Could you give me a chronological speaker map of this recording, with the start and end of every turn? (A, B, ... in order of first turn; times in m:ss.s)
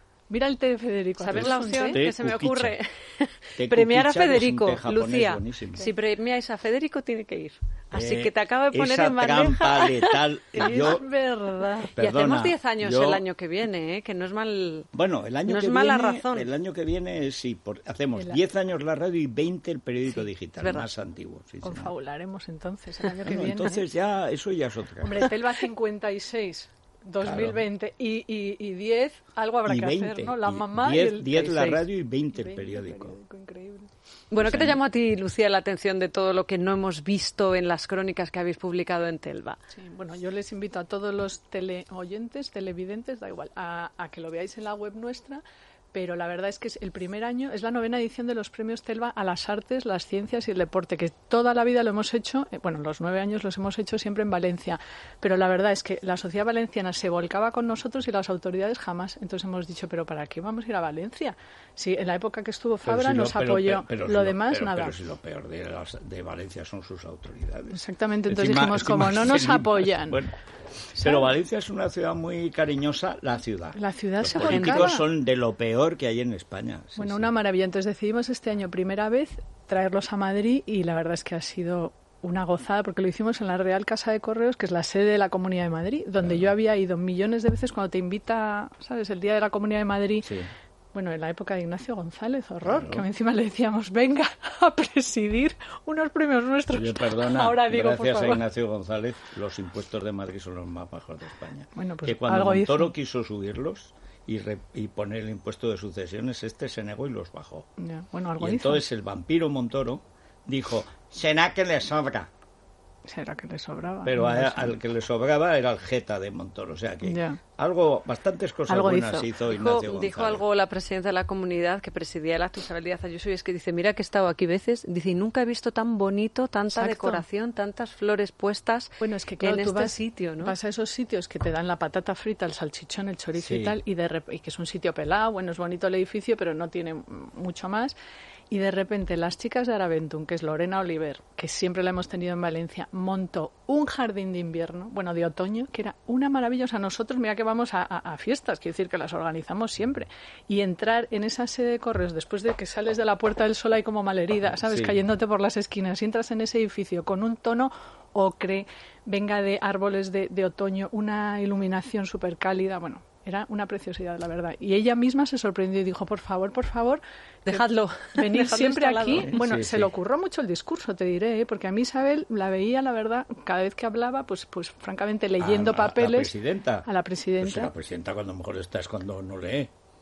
0:00.3-0:02.1 A
0:01.2-0:11.0 B
0:01.3-0:02.8 C
0:03.6-0:05.9 C
0:07.9-0:11.1 C
0:10.5-0:11.9 A
0:11.8-0:14.9 B
0:12.0-0:13.2 C
0:14.9-0:21.9 C
0:15.4-0:16.5 B
0:20.6-0:20.9 B
0:21.6-0:23.8 A
0:23.2-0:25.3 C
0:25.0-0:31.4 A
0:27.2-0:27.6 C
0:29.6-0:33.2 C
0:31.3-0:31.8 B
0:32.3-0:33.9 A
0:34.3-0:39.6 B
0:34.4-0:34.8 C
0:39.7-0:45.4 A
0:45.9-1:05.0 A
1:02.8-1:10.3 C
1:07.7-1:10.2 A
1:11.0-1:11.3 A
1:11.0-1:17.3 C
1:13.7-1:15.0 A
1:14.3-1:15.0 B
1:17.0-1:30.3 A
1:30.2-1:30.5 C
1:30.9-1:38.4 A
1:32.6-1:33.0 C
1:36.7-1:47.6 C
1:41.8-1:42.9 A
1:47.8-1:48.8 A
1:48.4-1:52.3 C
1:53.0-1:54.8 A
1:54.0-2:00.4 C
1:57.0-1:57.4 A
1:58.7-1:59.3 A
1:59.4-2:10.5 B
2:06.7-2:07.2 A
2:09.0-2:18.0 A
2:13.4-2:13.8 C
2:18.5-2:57.7 A
2:34.7-2:35.0 C
2:47.5-2:49.4 B
2:49.1-2:49.9 C
2:55.4-2:56.9 C
2:57.4-2:59.7 C